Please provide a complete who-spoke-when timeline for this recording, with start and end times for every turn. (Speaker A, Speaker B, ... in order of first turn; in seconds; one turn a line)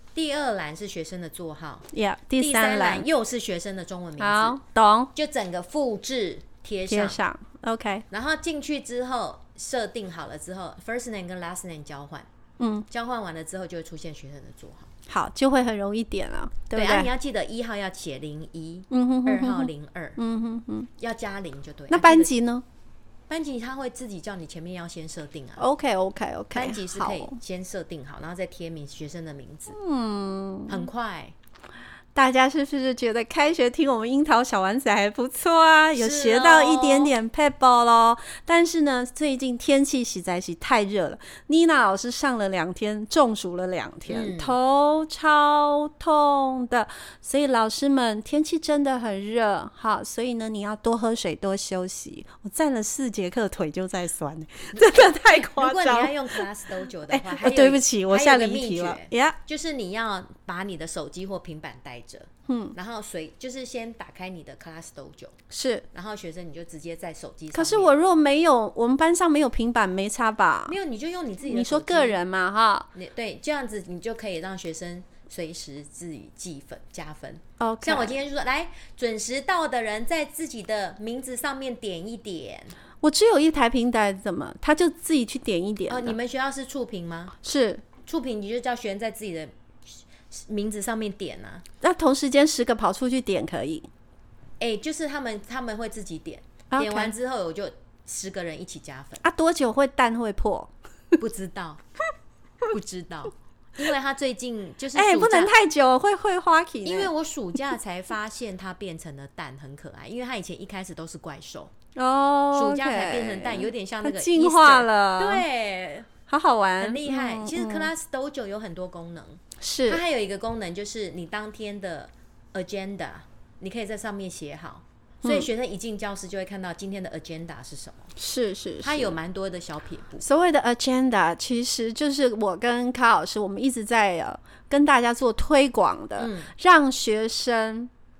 Speaker A: 0.1-1.9
Speaker B: 1.9-3.0
Speaker A: 2.4-4.6
Speaker B: 4.2-5.1
Speaker A: 5.2-7.2
Speaker B: 6.9-8.1
Speaker A: 8.1-12.3
Speaker B: 12.6-12.9
Speaker A: 12.9-14.9
Speaker B: 15.1-17.1
Speaker A: 16.7-20.2
Speaker B: 18.9-20.9
Speaker A: 21.0-22.3
Speaker B: 21.9-22.6
Speaker A: 23.3-25.6
Speaker B: 25.6-27.4
Speaker A: 26.5-29.8
Speaker B: 29.7-30.9
Speaker A: 30.7-31.4
Speaker B: 32.1-56.5
Speaker A: 36.0-37.1
Speaker A: 44.1-44.6
Speaker A: 54.7-65.4
Speaker B: 57.1-59.4
Speaker B: 62.5-62.8
Speaker B: 65.5-65.9
Speaker A: 65.9-67.9
Speaker B: 67.5-70.8
Speaker A: 70.7-72.2
Speaker B: 71.5-72.9
Speaker A: 72.9-82.8
Speaker B: 77.6-78.2
Speaker B: 83.0-86.2
Speaker A: 85.9-87.3
Speaker B: 87.4-87.8
Speaker A: 88.0-91.6
Speaker B: 91.8-93.9
Speaker A: 94.6-99.2
Speaker B: 96.7-97.1
Speaker B: 99.2-100.7
Speaker A: 101.2-101.8
Speaker A: 102.7-105.5
Speaker B: 104.9-107.1
Speaker A: 106.8-111.7
Speaker B: 112.0-115.5
Speaker A: 112.5-116.1
Speaker B: 116.3-117.9
Speaker A: 116.8-128.1
Speaker B: 119.6-120.0
Speaker B: 128.2-129.2
Speaker A: 128.8-130.3
Speaker B: 130.2-137.9
Speaker A: 136.2-136.5